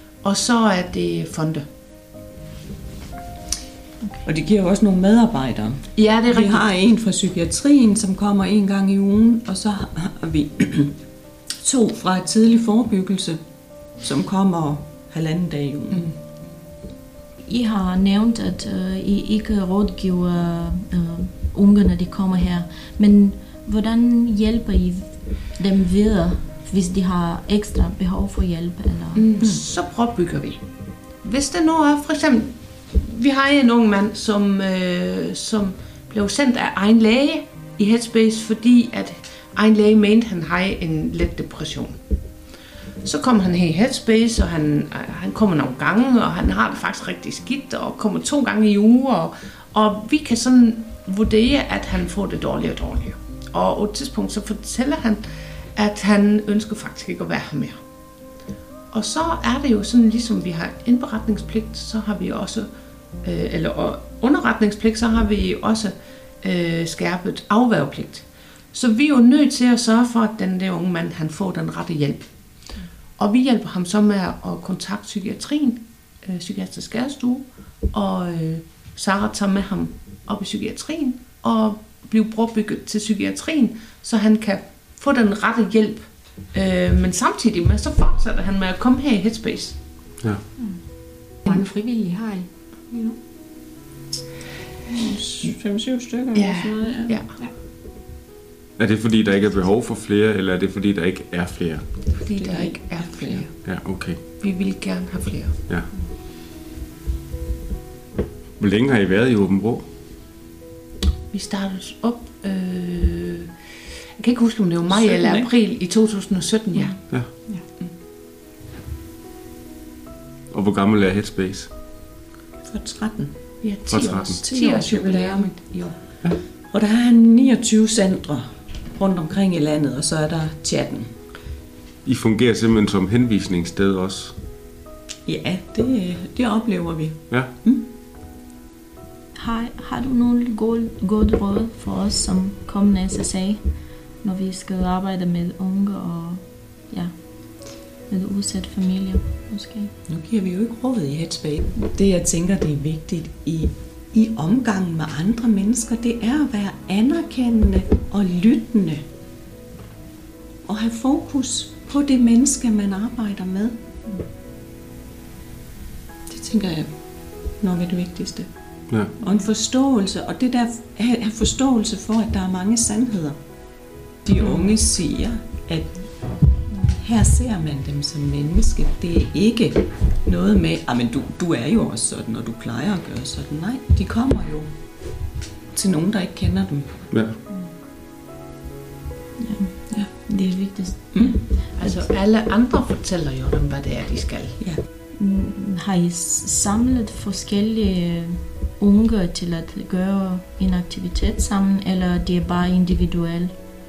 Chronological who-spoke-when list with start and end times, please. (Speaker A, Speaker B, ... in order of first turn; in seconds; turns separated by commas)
Speaker A: 0.2-1.6, Speaker B: 4.2-16.1, Speaker A: 6.0-6.6, Speaker C: 17.4-29.3, Speaker A: 29.1-30.6, Speaker B: 29.4-29.6, Speaker A: 31.2-42.0, Speaker A: 43.0-57.8, Speaker A: 58.9-62.7, Speaker A: 63.2-72.4, Speaker A: 73.2-89.8, Speaker D: 90.5-93.2, Speaker B: 94.9-97.2, Speaker A: 96.3-97.3, Speaker E: 98.8-101.8, Speaker A: 102.1-103.5, Speaker B: 102.3-103.5, Speaker E: 103.6-104.2, Speaker A: 104.3-105.5, Speaker E: 108.6-109.8, Speaker A: 111.3-113.5, Speaker A: 114.2-117.0, Speaker B: 114.9-115.5, Speaker D: 116.8-117.6, Speaker E: 120.5-121.7, Speaker B: 122.6-125.8, Speaker A: 123.6-126.0, Speaker E: 123.8-124.4, Speaker B: 126.6-131.1, Speaker E: 132.0-134.3, Speaker B: 135.2-137.9, Speaker E: 137.3-137.6, Speaker C: 139.3-149.9, Speaker B: 150.1-159.0, Speaker B: 160.6-163.8, Speaker B: 166.3-187.0, Speaker E: 168.9-169.2, Speaker D: 174.4-174.7, Speaker E: 187.1-187.4, Speaker C: 189.4-192.1, Speaker B: 191.1-191.4, Speaker A: 191.7-194.6, Speaker C: 195.2-203.5